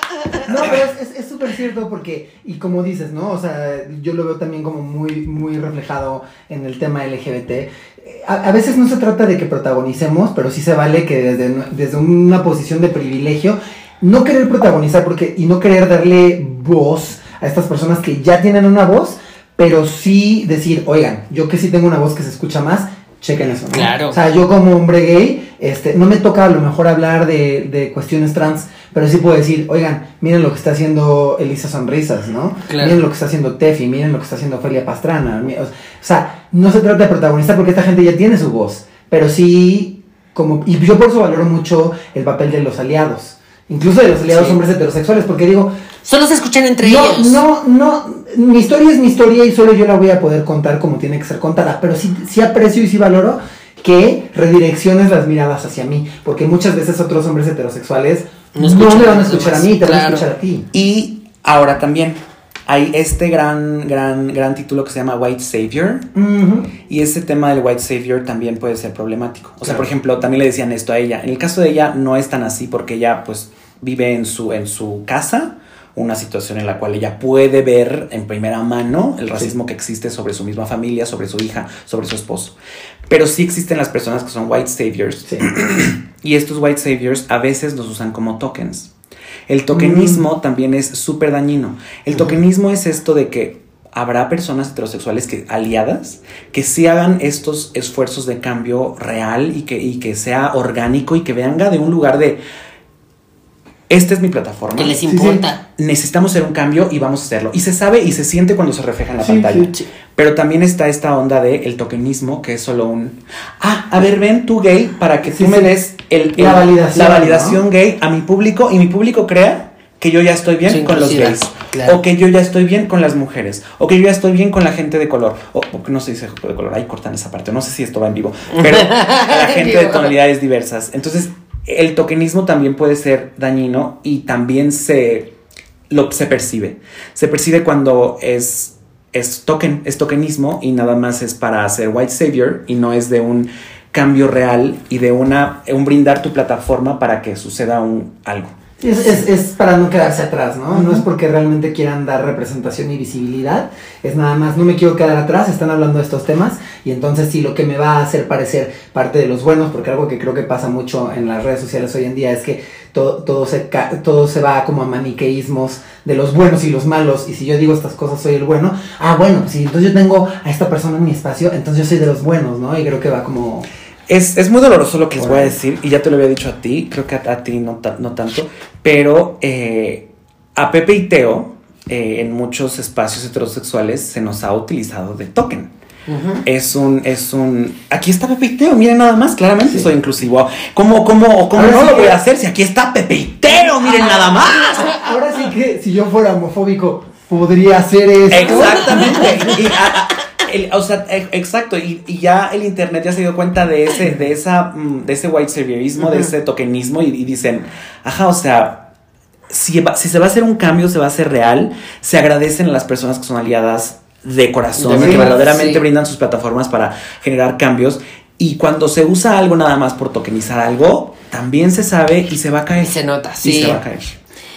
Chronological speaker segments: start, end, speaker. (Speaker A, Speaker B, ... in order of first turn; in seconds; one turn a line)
Speaker A: 0.5-45.7
Speaker B: 23.7-24.2
Speaker B: 32.7-33.0
Speaker B: 44.3-44.6
Speaker B: 46.0-47.4
Speaker A: 46.8-60.7
Speaker B: 58.5-60.3
Speaker C: 60.7-66.1
Speaker A: 66.1-66.7
Speaker C: 66.9-82.5
Speaker C: 83.1-88.9
Speaker C: 89.5-102.4
Speaker A: 89.7-90.2
Speaker C: 103.9-105.0
Speaker B: 104.8-105.6
Speaker A: 105.1-105.5
Speaker C: 105.8-135.3
Speaker A: 109.2-109.7
Speaker A: 115.3-115.7
Speaker A: 116.4-117.6
Speaker B: 120.7-122.0
Speaker B: 128.5-130.1
Speaker C: 135.9-148.5
Speaker A: 148.8-173.7
Speaker C: 174.1-185.7
Speaker A: 175.2-175.6
Speaker B: 186.1-186.4
Speaker C: 186.4-195.0
Speaker A: 189.7-189.9
Speaker A: 191.5-192.2
Speaker A: 193.7-199.6
Speaker C: 198.3-208.9
Speaker B: 198.4-199.5
Speaker C: 209.5-224.2
Speaker B: 214.8-215.8
Speaker A: 214.9-215.3
Speaker B: 222.8-223.8